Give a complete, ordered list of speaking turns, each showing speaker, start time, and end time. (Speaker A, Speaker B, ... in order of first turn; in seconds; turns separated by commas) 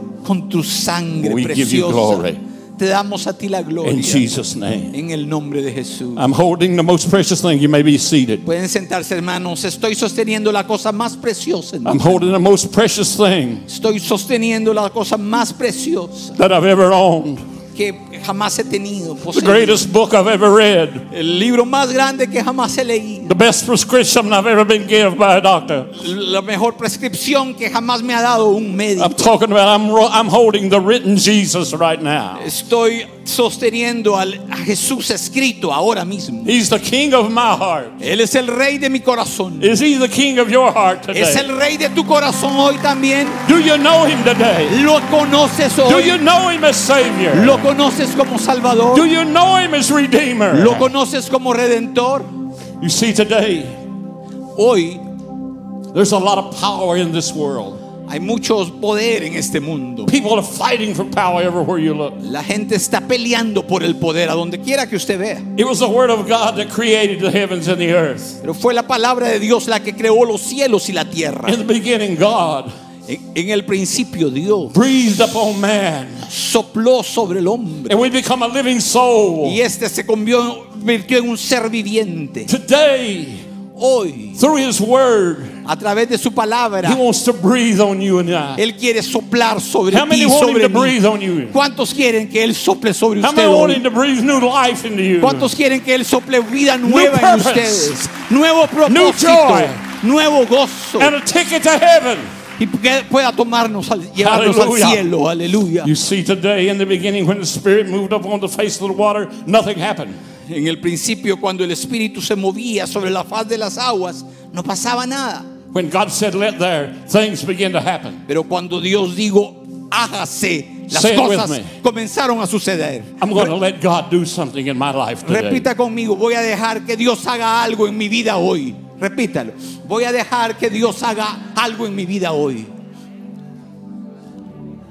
Speaker A: 0.2-4.2, Speaker B: 1.2-2.4, Speaker B: 3.8-4.9, Speaker A: 4.9-6.2, Speaker B: 6.2-8.4, Speaker A: 8.4-12.2, Speaker B: 11.8-13.7, Speaker A: 13.7-16.4, Speaker B: 16.4-17.4, Speaker A: 17.7-19.8, Speaker B: 19.3-21.1, Speaker A: 21.1-23.3, Speaker B: 23.2-25.9, Speaker A: 25.9-29.2, Speaker B: 29.0-32.5, Speaker A: 32.4-36.5, Speaker B: 36.4-38.0, Speaker A: 38.0-39.7, Speaker B: 39.6-41.5, Speaker A: 41.1-43.4, Speaker B: 43.4-44.8, Speaker A: 44.7-46.2, Speaker B: 45.8-47.7, Speaker A: 47.3-49.1, Speaker B: 48.9-50.9, Speaker A: 50.5-52.3, Speaker B: 52.8-53.8, Speaker A: 54.5-55.0, Speaker B: 55.9-57.8, Speaker A: 58.1-60.1, Speaker B: 60.1-62.2, Speaker A: 62.2-65.5, Speaker B: 65.5-68.4, Speaker A: 68.4-71.6, Speaker B: 71.4-72.7, Speaker A: 73.1-74.8, Speaker B: 74.7-76.3, Speaker A: 76.3-78.0, Speaker B: 77.9-79.6, Speaker A: 79.4-82.5, Speaker B: 82.5-83.4, Speaker A: 83.8-84.4, Speaker B: 84.4-85.6, Speaker A: 85.6-87.0, Speaker B: 86.8-88.6, Speaker A: 88.6-91.0, Speaker B: 89.9-91.5, Speaker A: 91.5-93.8, Speaker B: 93.2-95.5, Speaker A: 95.2-101.1, Speaker B: 96.8-97.9, Speaker B: 98.8-99.8, Speaker B: 101.0-102.3, Speaker A: 102.6-105.9, Speaker B: 104.2-105.0, Speaker B: 105.8-110.2, Speaker A: 110.5-115.5, Speaker B: 115.7-118.2, Speaker A: 118.3-123.5, Speaker B: 120.9-121.7, Speaker B: 123.2-125.7, Speaker A: 125.2-132.7